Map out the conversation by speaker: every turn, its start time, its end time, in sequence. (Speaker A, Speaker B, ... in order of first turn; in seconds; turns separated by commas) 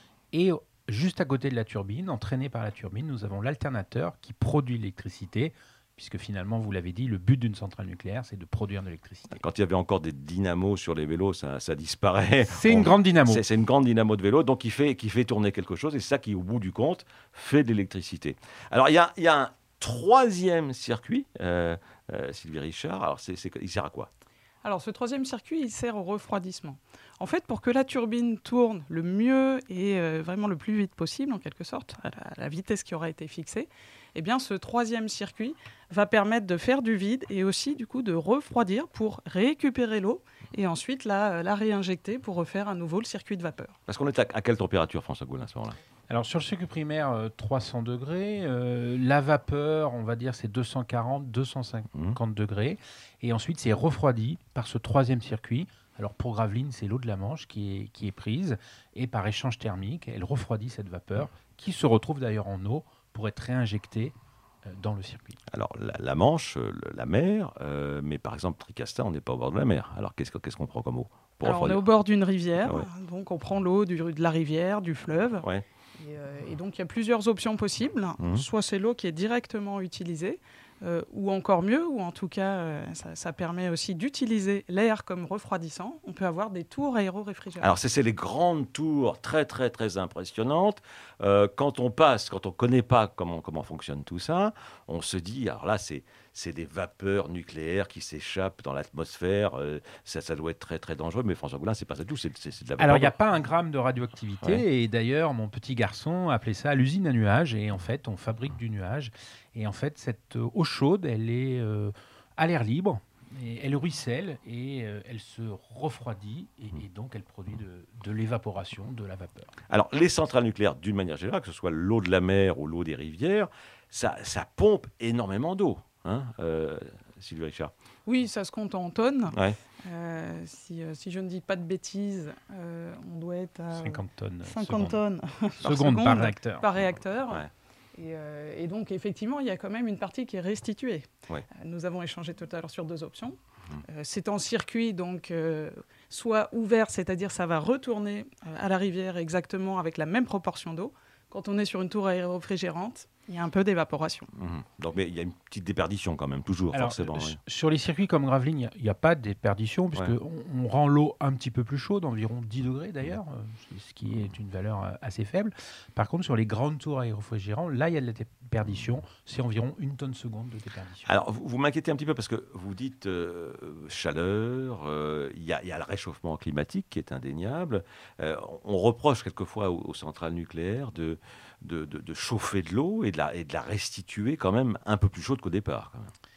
Speaker A: 0.3-9.4, Speaker B: 9.3-24.1, Speaker A: 12.5-13.4, Speaker C: 24.6-43.8, Speaker B: 43.9-45.8, Speaker A: 46.1-65.4, Speaker B: 51.9-52.2, Speaker B: 65.5-71.8, Speaker C: 71.4-75.5, Speaker C: 76.0-87.8, Speaker B: 78.2-78.5, Speaker B: 87.6-103.1, Speaker A: 102.8-119.5, Speaker B: 119.7-127.7, Speaker C: 128.1-154.3, Speaker B: 129.3-129.6, Speaker A: 133.8-135.0, Speaker A: 135.6-136.7, Speaker B: 154.3-157.4, Speaker A: 156.7-171.1, Speaker B: 171.1-186.1